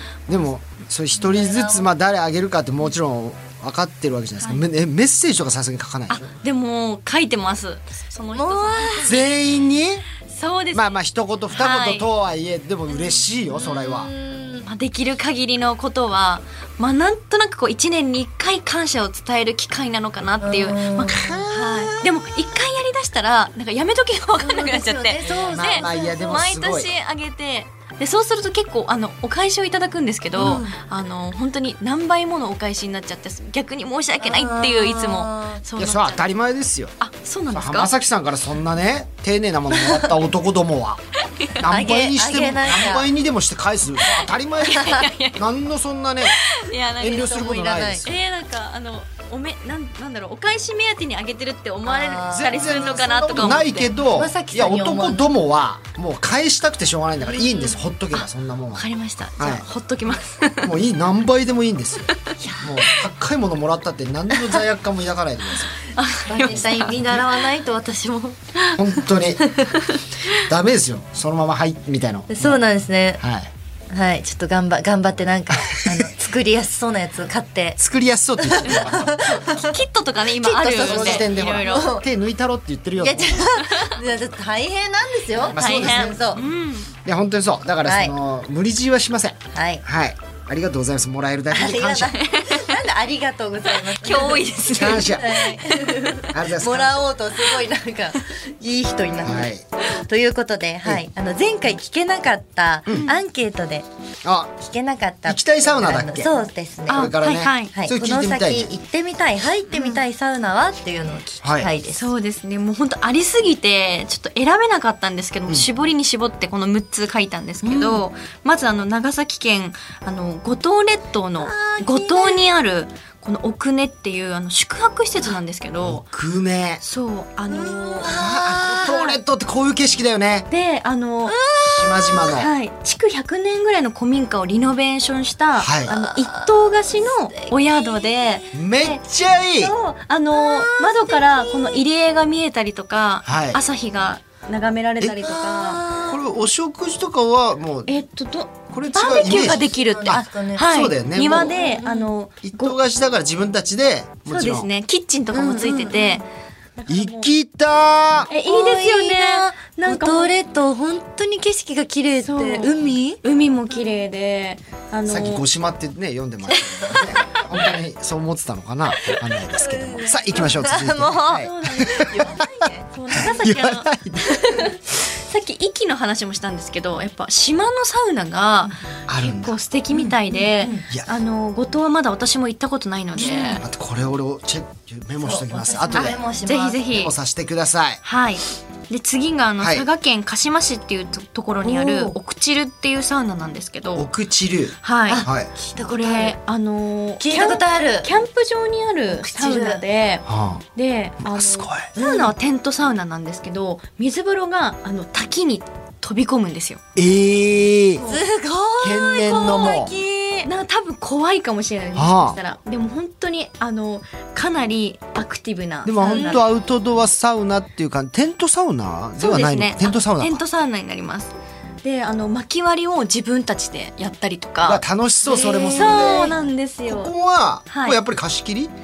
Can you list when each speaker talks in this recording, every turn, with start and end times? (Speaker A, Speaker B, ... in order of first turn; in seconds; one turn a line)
Speaker A: 0.3-6.3
Speaker B: 1.2-1.9
Speaker C: 6.1-9.3
Speaker B: 8.3-9.2
Speaker A: 9.0-10.1
Speaker C: 10.3-11.0
Speaker A: 10.7-14.1
Speaker C: 11.5-12.1
Speaker B: 13.6-14.7
Speaker C: 14.7-36.2
Speaker B: 20.4-22.0
Speaker B: 24.4-26.4
Speaker A: 25.3-26.9
Speaker A: 30.4-30.6
Speaker B: 30.4-30.8
Speaker B: 34.2-35.6
Speaker A: 35.8-37.0
Speaker C: 37.0-37.9
Speaker A: 37.5-41.0
Speaker A: 41.6-46.4
Speaker B: 41.7-43.1
Speaker C: 44.1-45.4
Speaker B: 44.6-45.0
Speaker C: 46.2-47.5
Speaker A: 47.0-48.1
Speaker B: 47.0-48.0
Speaker C: 48.0-53.9
Speaker B: 51.9-53.0
Speaker A: 52.3-58.9
Speaker B: 53.6-55.3
Speaker C: 57.2-60.7
Speaker A: 59.4-59.6
Speaker A: 60.6-65.8
Speaker B: 62.4-62.7
Speaker C: 65.9-66.9
Speaker B: 66.2-68.4
Speaker A: 66.5-67.2
Speaker A: 68.7-69.4
Speaker B: 69.4-69.9
Speaker A: 70.4-72.6
Speaker B: 72.3-73.2
Speaker A: 73.2-73.5
Speaker B: 73.9-77.8
Speaker A: 75.5-76.1
Speaker A: 77.8-79.2
Speaker B: 78.4-79.8
Speaker C: 78.7-81.9
Speaker B: 80.4-82.1
Speaker A: 80.7-83.5
Speaker B: 83.0-86.4
Speaker C: 83.7-84.0
Speaker A: 85.5-86.2
Speaker C: 85.5-87.0
Speaker A: 87.0-92.2
Speaker B: 87.8-88.1
Speaker B: 89.5-89.8
Speaker B: 91.5-103.9
Speaker C: 92.0-92.7
Speaker C: 93.7-95.6
Speaker A: 94.7-95.3
Speaker A: 96.3-97.1
Speaker A: 99.2-99.7
Speaker A: 104.2-104.6
Speaker B: 104.6-107.1
Speaker A: 105.3-106.3
Speaker C: 106.9-107.7
Speaker A: 106.9-108.7
Speaker B: 107.7-112.1
Speaker C: 109.7-110.0
Speaker A: 111.4-111.7
Speaker C: 111.9-126.0
Speaker B: 117.7-118.0
Speaker B: 121.4-122.4
Speaker A: 125.8-126.8
Speaker C: 126.8-128.2
Speaker B: 127.5-129.1
Speaker A: 128.1-130.5
Speaker C: 128.7-129.2
Speaker C: 130.5-131.4
Speaker B: 131.3-132.3
Speaker A: 131.6-132.5
Speaker C: 132.2-139.0
Speaker A: 135.6-136.0
Speaker B: 135.9-138.4
Speaker A: 138.5-139.7
Speaker C: 139.6-145.8
Speaker B: 140.3-141.8
Speaker A: 143.2-143.6
Speaker B: 145.2-146.2
Speaker A: 146.1-147.9
Speaker C: 147.9-152.8
Speaker A: 148.7-151.5
Speaker B: 149.3-150.7
Speaker B: 151.3-152.1
Speaker A: 152.4-154.7
Speaker C: 154.3-156.2
Speaker B: 155.3-156.2
Speaker C: 156.8-157.3
Speaker A: 156.9-158.3
Speaker B: 158.3-163.2
Speaker C: 158.3-160.3
Speaker C: 162.2-165.4
Speaker A: 165.1-172.3
Speaker C: 166.6-167.5
Speaker B: 169.6-172.7
Speaker C: 170.1-170.5
Speaker C: 171.3-183.6
Speaker A: 173.1-174.4
Speaker A: 179.1-179.6
Speaker B: 179.9-180.8
Speaker B: 183.2-183.6
Speaker A: 183.6-186.2
Speaker B: 185.2-186.8
Speaker C: 185.9-187.1
Speaker A: 186.9-188.0
Speaker C: 188.0-194.1
Speaker A: 189.6-189.9
Speaker B: 191.6-192.2
Speaker A: 193.9-195.5
Speaker C: 194.8-195.2
Speaker B: 195.1-196.3
Speaker C: 195.8-206.8
Speaker B: 197.2-198.1
Speaker B: 199.2-199.8
Speaker A: 200.3-200.6
Speaker A: 201.2-201.9
Speaker B: 202.0-202.3
Speaker A: 207.0-208.0
Speaker C: 208.0-208.2
Speaker B: 208.1-210.5
Speaker A: 208.8-209.9
Speaker C: 209.1-209.8
Speaker C: 210.4-216.4
Speaker A: 211.9-212.4
Speaker A: 215.8-220.4
Speaker B: 216.0-216.4
Speaker C: 219.2-227.1
Speaker A: 224.7-228.7
Speaker B: 225.3-226.3
Speaker C: 227.7-228.0